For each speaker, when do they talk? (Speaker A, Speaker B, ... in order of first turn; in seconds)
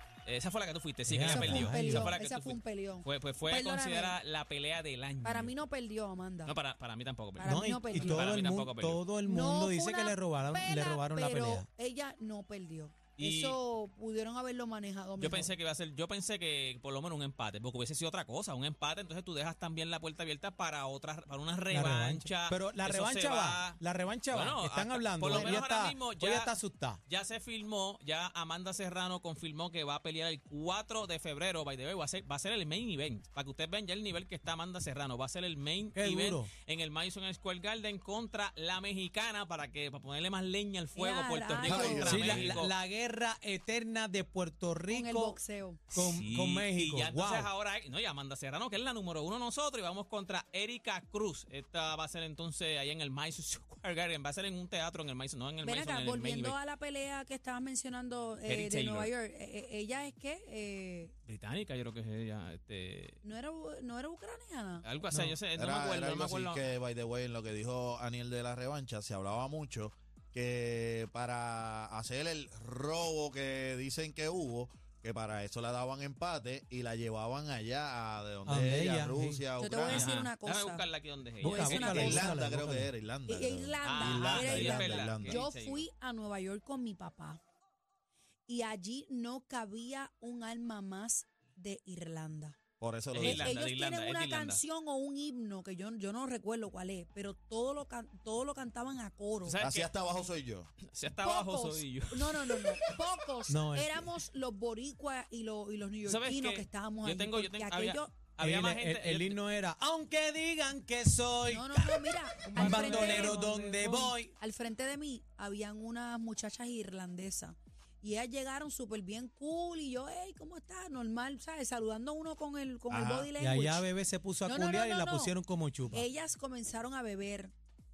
Speaker A: 0.2-5.5, 6.5-9.0, 13.2-13.6, 15.2-23.8, 24.3-26.5, 27.1-42.7, 45.9-56.6, 58.5-59.1, 61.3-63.2, 64.8-66.7, 79.9-82.2, 83.8-85.8, 93.1-94.6, 99.4-100.0, 100.9-102.9, 106.0-109.4, 112.5-114.1
Speaker B: 1.1-2.1, 7.4-11.7, 21.7-27.0, 35.9-36.5, 42.0-45.4, 45.9-47.5, 65.1-65.4, 78.5-79.4, 81.4-82.9, 103.5-104.1, 108.4-114.3, 123.4-126.1
Speaker C: 1.3-4.2, 5.2-6.5, 7.4-8.3, 9.2-15.5, 25.3-25.6, 41.0-42.3, 44.9-45.8, 55.6-61.1, 63.2-64.8, 79.6-80.8, 81.5-82.3, 83.3-87.4, 88.5-92.6, 93.2-99.6, 101.2-108.1, 111.5-113.4, 114.3-123.8, 124.4-125.3, 125.9-127.5
Speaker D: 41.6-42.6, 65.5-80.1, 81.6-85.4, 92.8-93.5, 99.6-100.7, 122.9-123.3